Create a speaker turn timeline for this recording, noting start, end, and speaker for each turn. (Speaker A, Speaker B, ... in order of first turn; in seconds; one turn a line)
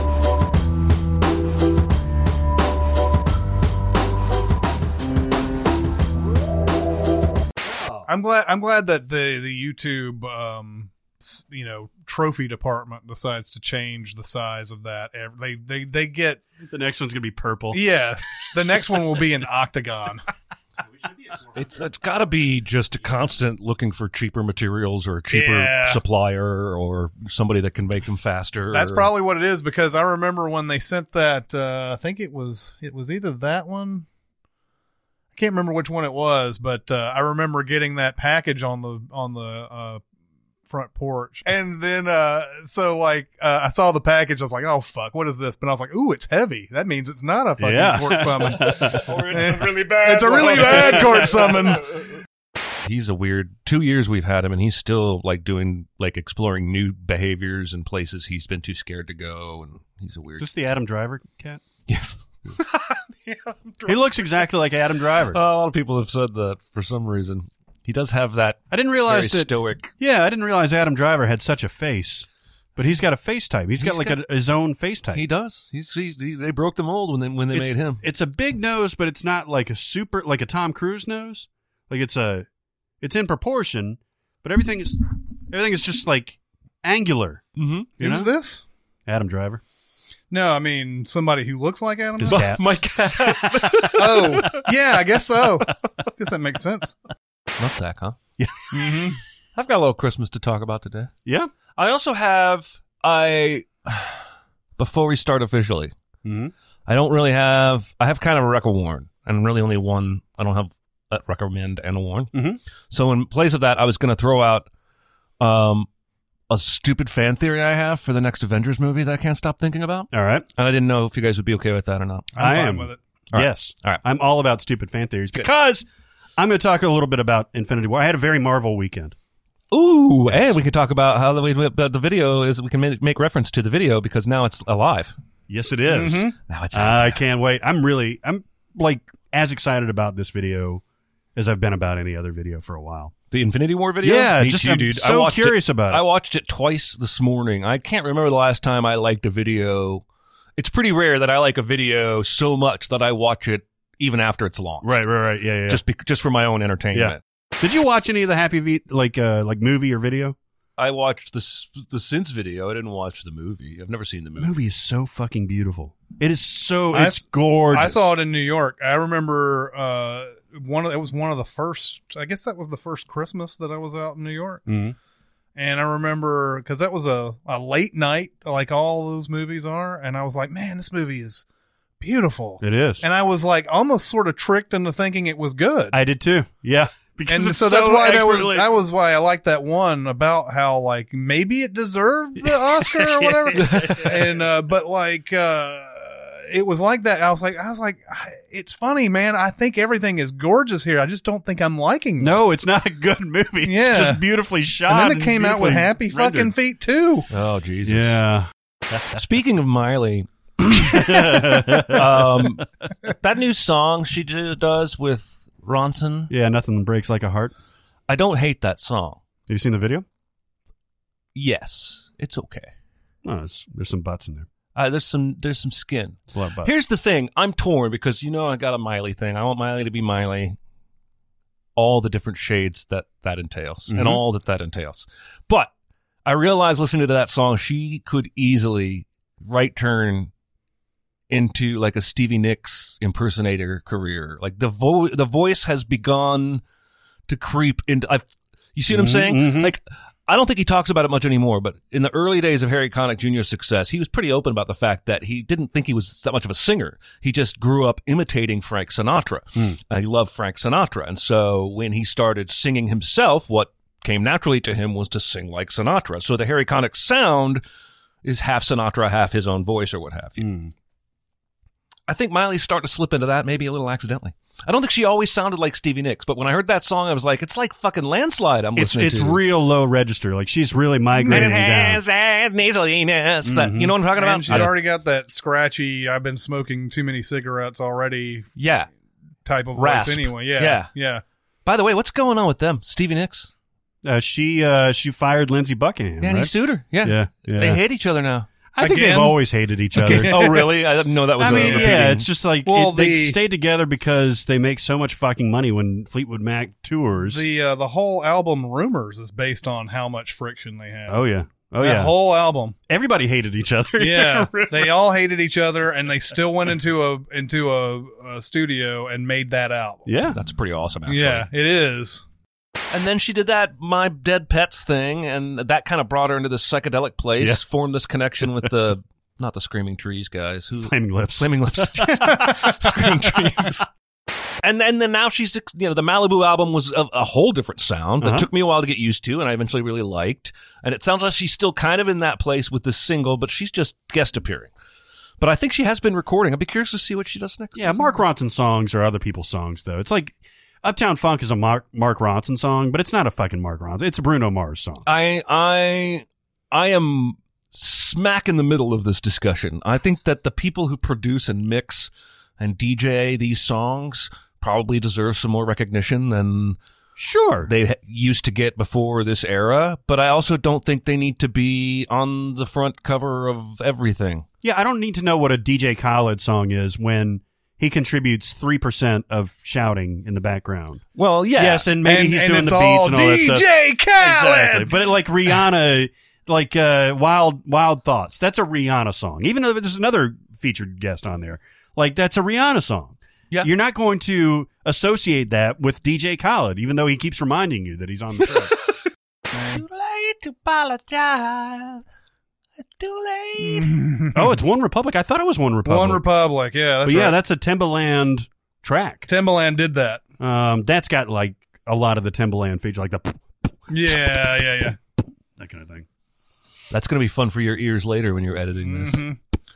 Speaker A: 7.6-8.1
Speaker B: 8.1-16.4
Speaker A: 16.6-17.8
Speaker B: 17.7-20.2
Speaker C: 21.4-29.1
Speaker B: 25.3-26.0
Speaker B: 28.7-34.0
Speaker B: 35.3-40.0
Speaker B: 40.7-52.0
Speaker A: 47.6-49.2
Speaker C: 49.0-52.0
Speaker A: 50.5-51.3
Speaker C: 52.8-60.5
Speaker A: 60.4-61.6
Speaker C: 61.9-64.2
Speaker A: 63.8-65.4
Speaker C: 65.3-69.9
Speaker A: 68.7-75.2
Speaker C: 73.8-74.2
Speaker C: 75.1-78.0
Speaker A: 77.5-82.5
Speaker A: 83.0-87.4
Speaker C: 87.5-87.9
Speaker A: 88.0-88.3
Speaker B: 88.0-88.6
Speaker A: 89.1-89.6
Speaker B: 90.3-92.5
Speaker A: 92.2-94.5
Speaker C: 92.2-94.6
Speaker B: 93.8-97.0
Speaker C: 97.6-98.2
Speaker A: 98.4-98.7
Speaker B: 98.7-99.2
Speaker C: 99.5-101.1
Speaker A: 101.2-101.5
Speaker C: 101.8-104.2
Speaker C: 104.8-105.9
Speaker A: 106.2-106.5
Speaker C: 106.9-112.3
Speaker A: 112.3-112.6
Speaker C: 112.9-114.7
Speaker C: 115.4-115.9
Speaker C: 116.5-122.3
Speaker A: 120.1-120.5
Speaker B: 122.3-123.0
Speaker A: 122.4-125.8
Speaker C: 123.3-124.0
Speaker A: 126.4-129.2
Speaker C: 129.7-135.1
Speaker A: 135.5-140.8
Speaker B: 135.9-136.3
Speaker C: 136.4-137.2
Speaker A: 141.3-143.1
Speaker C: 143.3-150.0
Speaker A: 144.0-146.0
Speaker C: 150.6-155.0
Speaker A: 154.8-155.8
Speaker C: 155.7-157.2
Speaker A: 156.9-160.3
Speaker C: 160.8-164.5
Speaker A: 164.4-168.1
Speaker B: 166.9-174.6
Speaker A: 174.7-174.9
Speaker B: 175.6-181.4
Speaker B: 182.0-186.0
Speaker A: 182.6-183.0
Speaker A: 185.9-188.7
Speaker B: 187.3-202.5
Speaker A: 192.4-194.2
Speaker C: 193.5-194.2
Speaker A: 202.2-206.5
Speaker B: 203.6-204.2
Speaker B: 204.9-207.3
Speaker C: 207.3-208.2
Speaker A: 207.8-209.2
Speaker C: 209.1-216.3
Speaker A: 210.6-212.6
Speaker A: 216.3-217.5
Speaker C: 218.1-219.2
Speaker A: 219.5-220.0
Speaker C: 221.3-222.7
Speaker A: 223.2-224.5
Speaker C: 224.7-230.6
Speaker A: 226.3-226.7
Speaker C: 231.8-235.7
Speaker A: 233.9-234.2
Speaker C: 236.2-240.3
Speaker C: 241.3-246.6
Speaker C: 247.3-267.6
Speaker A: 248.9-249.7
Speaker C: 268.2-270.5
Speaker A: 270.4-270.7
Speaker C: 272.1-279.4
Speaker A: 278.8-282.0
Speaker B: 281.2-281.4
Speaker C: 281.2-284.7
Speaker A: 283.4-283.9
Speaker B: 284.1-288.6
Speaker C: 288.6-288.9
Speaker B: 289.4-291.2
Speaker C: 289.7-290.9
Speaker C: 291.6-293.5
Speaker A: 294.0-297.8
Speaker C: 296.2-298.5
Speaker A: 298.7-300.6
Speaker B: 298.8-299.4
Speaker B: 299.9-300.7
Speaker C: 300.1-302.2
Speaker A: 301.4-307.4
Speaker B: 301.4-302.1
Speaker B: 302.6-303.4
Speaker B: 307.2-311.2
Speaker A: 311.1-312.1
Speaker B: 311.8-312.7
Speaker A: 312.9-315.0
Speaker B: 314.0-320.1
Speaker A: 320.1-320.4
Speaker C: 320.3-321.5
Speaker B: 321.1-322.2
Speaker C: 322.9-333.9
Speaker A: 330.8-333.6
Speaker C: 334.6-344.7
Speaker A: 338.2-338.5
Speaker C: 345.4-348.2
Speaker A: 347.8-355.0
Speaker C: 355.1-366.8
Speaker A: 367.2-367.7
Speaker C: 367.6-374.4
Speaker A: 374.6-381.0
Speaker C: 381.1-381.9
Speaker A: 381.5-398.7
Speaker B: 382.0-385.0
Speaker B: 399.5-399.8
Speaker C: 399.6-402.0
Speaker C: 402.8-403.9
Speaker B: 403.6-404.6
Speaker A: 404.3-406.2
Speaker B: 405.8-407.4
Speaker A: 407.0-409.3
Speaker B: 409.3-410.2
Speaker A: 410.4-413.4
Speaker B: 413.9-415.0
Speaker A: 415.6-416.1
Speaker C: 416.9-419.2
Speaker B: 418.8-419.4